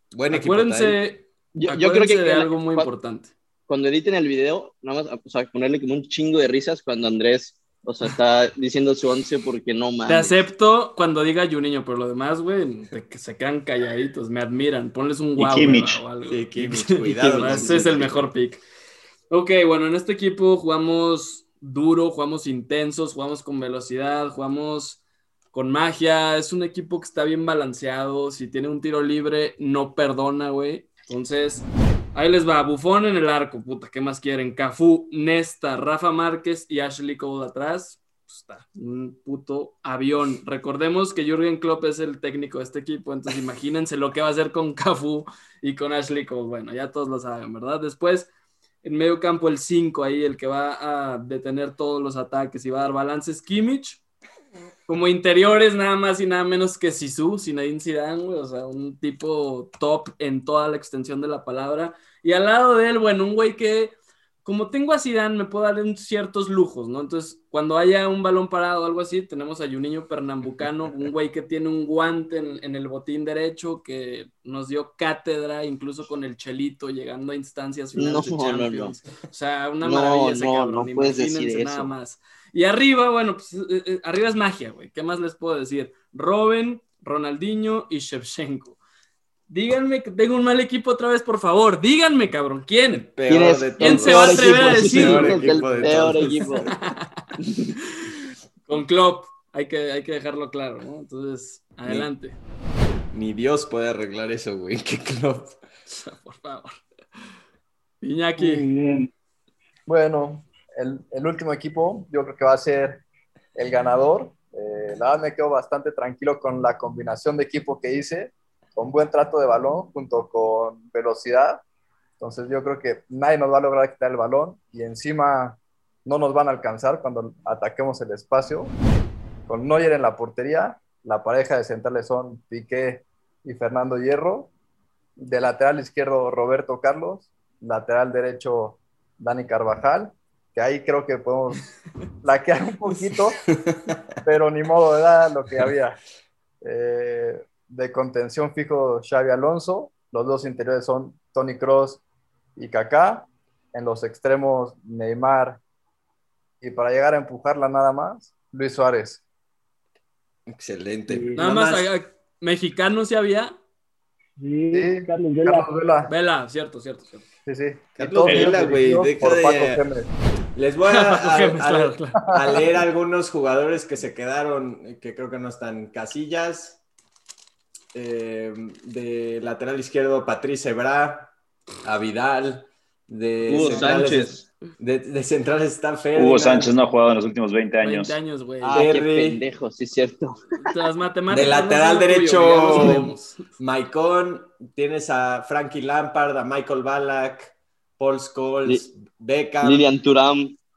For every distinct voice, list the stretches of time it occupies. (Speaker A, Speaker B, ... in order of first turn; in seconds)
Speaker A: 0.1-1.0, 16.3-18.3, 92.9-96.7, 103.1-105.6, 143.6-143.9, 160.5-161.9, 167.9-169.8, 170.6-176.8, 177.9-181.3, 181.8-186.7, 188.7-189.4, 191.3-199.9
Speaker B: 0.3-3.3, 10.1-18.6, 19.3-25.0, 25.5-48.3, 48.8-54.0, 54.9-88.8, 89.5-93.1, 93.8-97.2, 98.7-102.4, 105.9-106.8, 108.0-108.7, 161.4-163.6, 166.1-167.2, 170.9-172.2, 183.5-184.1, 187.8-188.8, 190.6-193.4
Speaker C: 1.5-2.9, 3.7-10.4, 17.2-18.0, 77.9-78.9, 79.8-81.9, 93.3-96.7, 183.4-184.4, 188.6-190.7, 199.6-200.6
Speaker D: 15.4-16.0, 186.1-188.2
Speaker E: 108.4-109.1, 161.1-161.5, 164.4-165.7
Speaker F: 109.9-113.0, 113.5-121.6, 122.2-128.7, 129.5-134.5, 135.2-141.7, 142.2-143.4, 144.2-146.0, 146.6-152.0, 152.6-155.6, 156.6-159.2, 164.7-166.1, 167.4-170.1